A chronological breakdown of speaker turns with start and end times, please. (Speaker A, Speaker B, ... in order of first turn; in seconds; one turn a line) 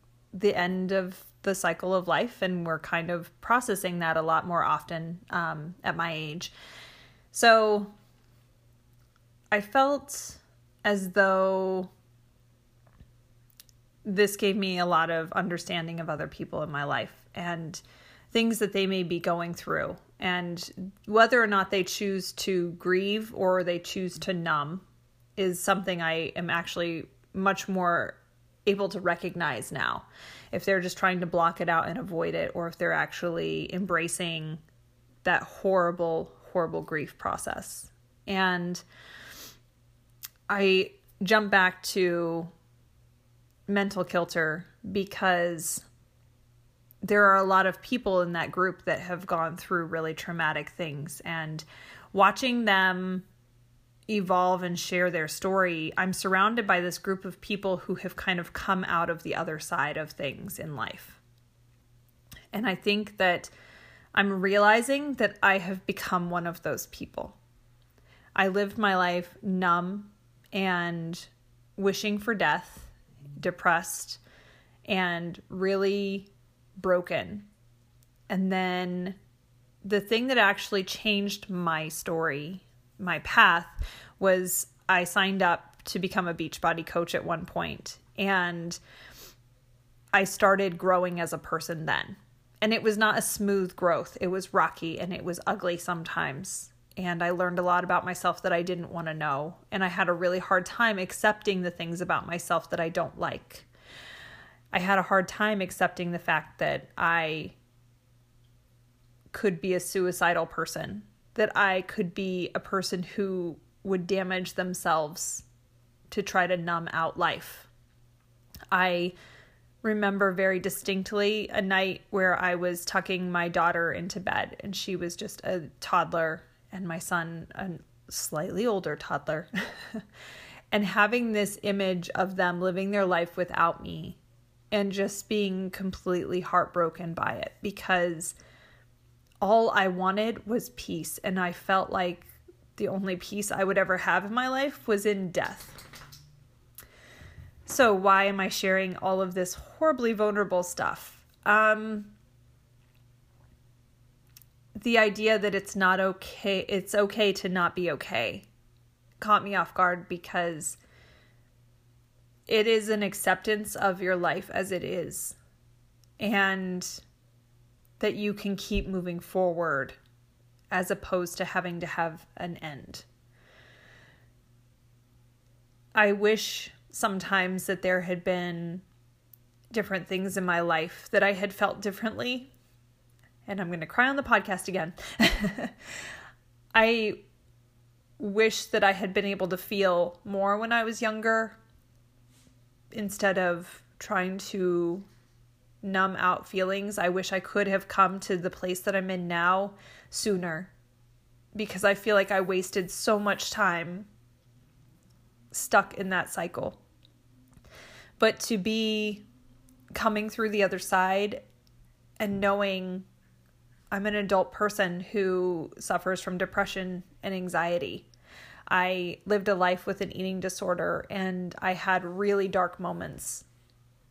Speaker A: 0.3-6.5
Speaker A: 7.3-7.9
Speaker A: 9.5-11.9
Speaker A: 14.0-24.8
Speaker A: 25.4-34.6
Speaker A: 35.2-38.8
Speaker A: 40.5-42.5
Speaker A: 43.7-45.9
Speaker A: 47.0-53.2
Speaker A: 54.1-61.2
Speaker A: 62.5-63.5
Speaker A: 64.1-67.4
Speaker A: 68.3-74.2
Speaker A: 74.8-77.5
Speaker A: 78.3-79.2
Speaker A: 79.8-88.8
Speaker A: 90.1-103.7
Speaker A: 104.7-107.5
Speaker A: 109.3-115.5
Speaker A: 116.1-117.7
Speaker A: 118.7-119.1
Speaker A: 119.8-130.0
Speaker A: 130.7-134.2
Speaker A: 134.7-138.3
Speaker A: 139.4-145.8
Speaker A: 147.7-152.1
Speaker A: 154.8-158.5
Speaker A: 159.2-160.8
Speaker A: 162.5-165.4
Speaker A: 166.2-167.0
Speaker A: 168.0-170.0
Speaker A: 170.7-173.1
Speaker A: 175.9-178.8
Speaker A: 179.7-182.5
Speaker A: 183.4-185.7
Speaker A: 186.7-187.2
Speaker A: 188.2-191.6
Speaker A: 192.9-195.1
Speaker A: 195.8-200.7
Speaker A: 201.5-204.1
Speaker A: 205.5-206.8
Speaker A: 208.2-209.2
Speaker A: 209.9-211.4
Speaker A: 212.2-213.1
Speaker A: 213.9-218.1
Speaker A: 218.7-223.4